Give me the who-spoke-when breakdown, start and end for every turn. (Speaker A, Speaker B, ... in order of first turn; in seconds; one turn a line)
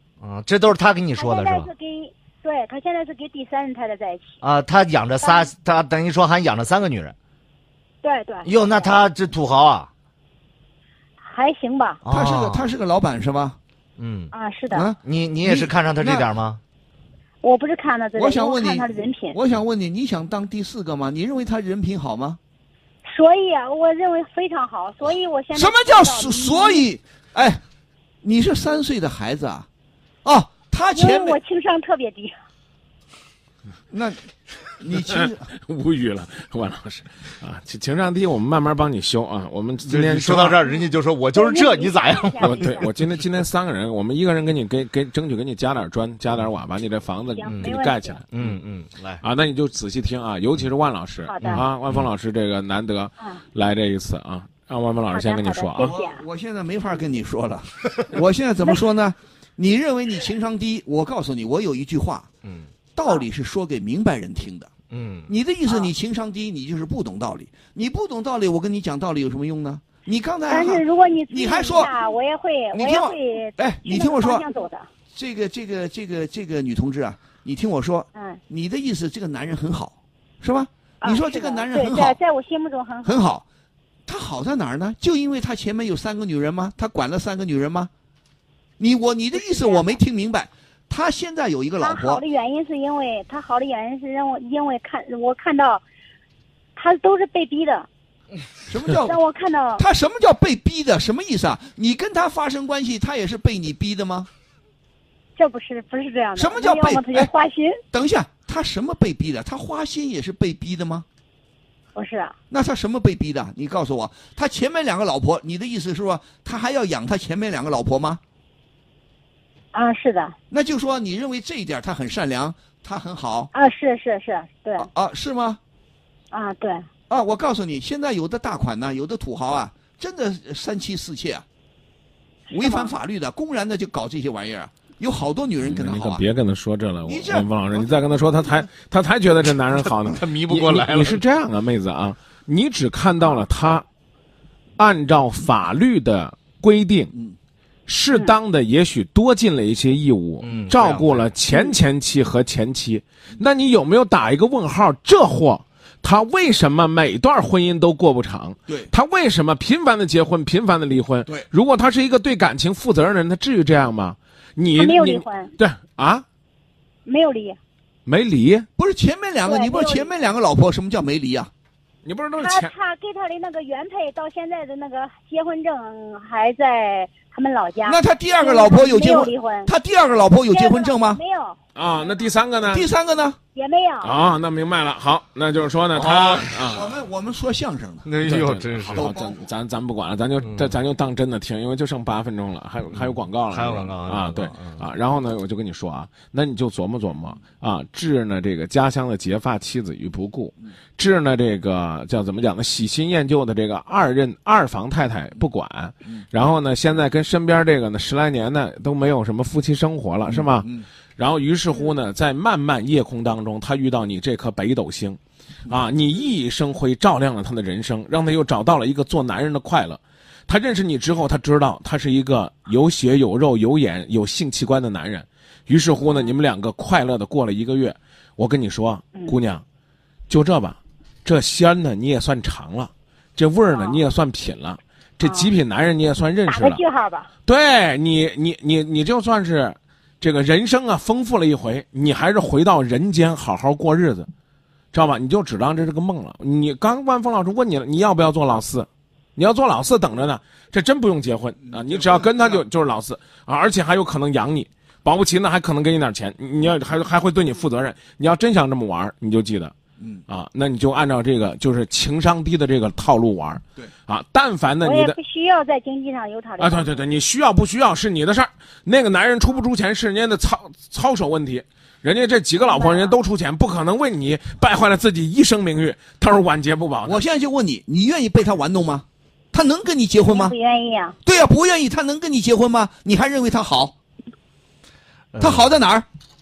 Speaker A: 0.2-1.7
Speaker B: 1.1-4.4
Speaker A: 4.4-7.2
Speaker B: 5.2-5.5
Speaker B: 8.0-9.1
Speaker A: 8.4-9.9
Speaker B: 11.2-12.0
Speaker A: 12.1-12.7
Speaker C: 12.1-13.6
Speaker A: 14.0-14.3
Speaker B: 14.3-14.8
Speaker C: 14.7-16.3
Speaker A: 15.0-16.6
Speaker B: 17.4-19.4
Speaker C: 18.2-22.4
Speaker B: 23.1-26.9
Speaker C: 25.5-27.6
Speaker C: 28.2-29.7
Speaker C: 30.2-31.4
Speaker B: 30.9-32.4
Speaker C: 33.9-34.2
Speaker C: 34.8-35.5
Speaker D: 35.1-40.6
Speaker A: 39.9-42.8
Speaker B: 41.3-42.9
Speaker D: 42.4-48.5
Speaker B: 47.3-48.2
Speaker A: 47.5-47.8
Speaker A: 48.3-49.2
Speaker D: 49.2-55.9
Speaker B: 51.3-51.6
Speaker A: 51.4-52.0
Speaker B: 55.1-56.2
Speaker C: 55.8-62.3
Speaker A: 62.4-62.7
Speaker C: 63.0-64.7
Speaker A: 64.9-65.3
Speaker C: 65.3-71.9
Speaker B: 70.5-74.9
Speaker C: 72.7-74.5
Speaker C: 75.1-82.2
Speaker B: 81.0-83.3
Speaker C: 83.0-83.4
Speaker C: 84.1-87.9
Speaker C: 88.8-92.2
Speaker B: 89.4-90.0
Speaker B: 91.8-95.8
Speaker B: 96.8-97.9
Speaker C: 98.7-99.2
Speaker B: 99.0-99.8
Speaker C: 99.8-104.3
Speaker B: 105.4-107.8
Speaker C: 106.4-107.3
Speaker C: 107.9-111.0
Speaker B: 112.0-112.3
Speaker C: 112.5-118.2
Speaker B: 119.7-120.3
Speaker C: 120.5-123.5
Speaker B: 123.5-124.9
Speaker C: 124.8-125.6
Speaker B: 126.3-126.9
Speaker C: 127.1-131.4
Speaker B: 132.5-132.9
Speaker C: 132.5-136.2
Speaker D: 135.6-143.8
Speaker C: 137.1-137.5
Speaker A: 140.1-141.2
Speaker D: 144.8-147.1
Speaker D: 147.9-166.2
Speaker A: 150.4-151.3
Speaker B: 164.8-165.5
Speaker B: 167.1-167.6
Speaker D: 168.1-168.7
Speaker C: 168.8-171.5
Speaker B: 169.4-170.1
Speaker D: 172.0-172.7
Speaker B: 172.4-179.7
Speaker C: 177.8-181.2
Speaker B: 180.5-182.3
Speaker D: 181.8-182.9
Speaker C: 182.7-183.4
Speaker B: 183.6-184.1
Speaker D: 184.0-187.0
Speaker A: 185.9-186.6
Speaker C: 186.1-188.1
Speaker A: 188.1-189.1
Speaker D: 188.2-229.6
Speaker C: 188.9-189.4
Speaker A: 190.4-190.7
Speaker A: 193.5-194.8
Speaker C: 210.3-210.9
Speaker D: 230.3-236.8
Speaker B: 233.7-234.0
Speaker B: 235.2-235.5
Speaker B: 236.5-237.3
Speaker D: 237.5-244.3
Speaker D: 244.9-259.7
Speaker C: 251.8-252.6
Speaker D: 260.3-265.2
Speaker B: 264.8-266.9
Speaker D: 266.6-277.2
Speaker B: 272.6-273.2
Speaker C: 277.1-280.6
Speaker B: 280.2-281.2
Speaker C: 281.2-283.9
Speaker A: 285.3-285.8
Speaker C: 285.4-286.1